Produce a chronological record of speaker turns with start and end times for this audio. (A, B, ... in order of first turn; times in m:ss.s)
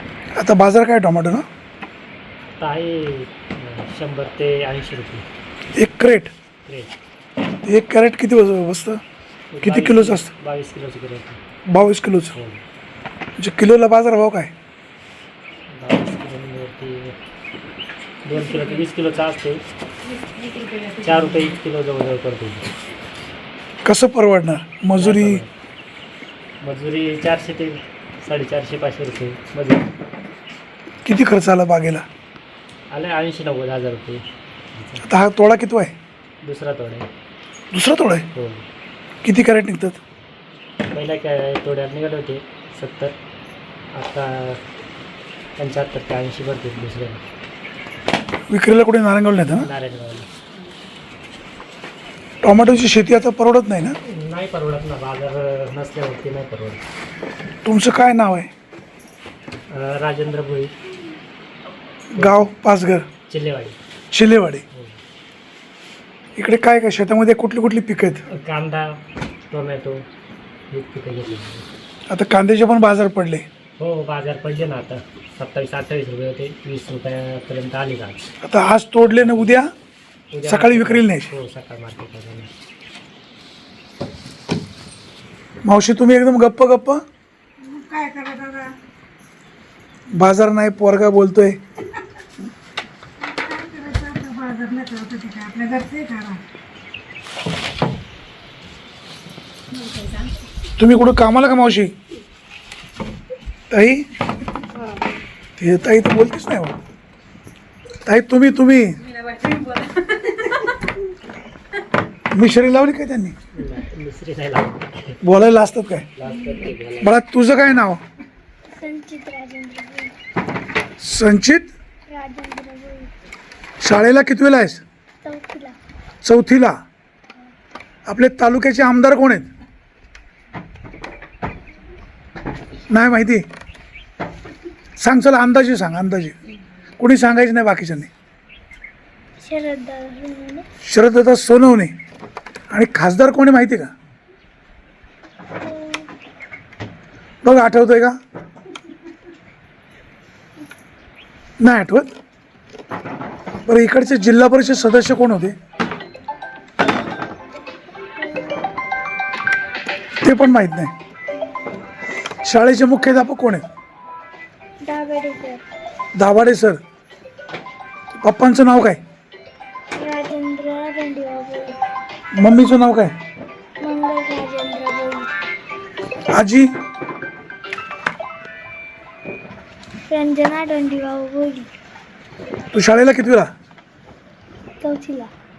0:00.4-0:01.4 A
0:02.6-0:05.3 B
0:05.8-0:06.3 A
0:06.6-0:07.0 B
0:07.6-0:09.0 A
0:09.5-0:11.4 B
0:09.6-0:10.3 A
0:11.7-0:12.3 A
0:12.3-0:12.6 B
0:13.4-0:14.5 A
0:15.7-0:17.2 B
0:18.2-0:19.6 B
0:20.4-0:20.8 C
0:20.9-0:22.7 B
0:23.8-0:25.4 A
0:25.0-0:25.5 B
0:26.6-0:29.9 B
0:31.0-0:32.0 A
0:32.9-0:35.0 B
0:35.0-0:35.9 A
0:36.4-0:37.1 B
0:37.7-0:38.3 A
0:38.4-0:38.6 B
0:39.2-0:40.0 A
0:40.9-0:43.2 B
0:43.9-0:44.6 B
0:45.6-0:47.2 B
0:48.5-0:49.7 A
0:49.6-0:50.3 B
0:52.4-0:54.0 A
0:54.0-0:56.8 B
0:57.6-0:58.5 A
0:59.7-1:00.7 B
1:02.1-1:03.1 A
1:02.2-1:02.5 B
1:03.3-1:03.8 B
1:04.1-1:04.6 A
1:04.7-1:05.0 B
1:06.4-1:08.2 A
1:08.3-1:10.1 B
1:10.7-1:11.7 B
1:12.1-1:13.4 A
1:13.8-1:18.3 B
1:18.4-1:19.7 A
1:19.1-1:19.5 B
1:20.3-1:22.5 B
1:20.4-1:21.3 A
1:25.6-1:27.0 A
1:27.6-1:28.8 C
1:30.2-1:31.6 A
1:33.3-1:36.4 C
1:40.8-1:41.9 A
1:43.7-1:44.0 A
1:45.6-1:46.8 A
1:48.0-1:49.0 A
1:49.2-1:50.1 C
1:52.3-1:53.4 A
1:53.5-1:55.2 B
1:55.2-1:56.1 A
1:56.2-1:57.2 B
1:57.0-1:58.0 A
1:58.7-2:00.1 D
2:01.0-2:01.7 A
2:02.1-2:03.1 D
2:03.8-2:04.8 A
2:05.2-2:05.8 D
2:06.2-2:06.8 A
2:08.1-2:09.5 A
2:12.9-2:13.4 A
2:15.0-2:16.4 A
2:17.0-2:18.1 A
2:19.4-2:20.6 D
2:20.8-2:21.9 A
2:22.7-2:23.9 A
2:25.6-2:26.1 D
2:27.4-2:28.1 A
2:31.6-2:32.1 A
2:33.7-2:35.6 A
2:38.2-2:38.6 D
2:40.2-2:40.9 A
2:42.4-2:43.6 A
2:44.8-2:45.6 D
2:46.2-2:46.8 A
2:48.2-2:49.0 A
2:50.0-2:51.8 D
2:52.4-2:53.1 A
2:53.8-2:55.3 D
2:56.3-2:56.7 A
3:00.1-3:01.7 D
3:02.7-3:03.5 A
3:04.8-3:05.3 D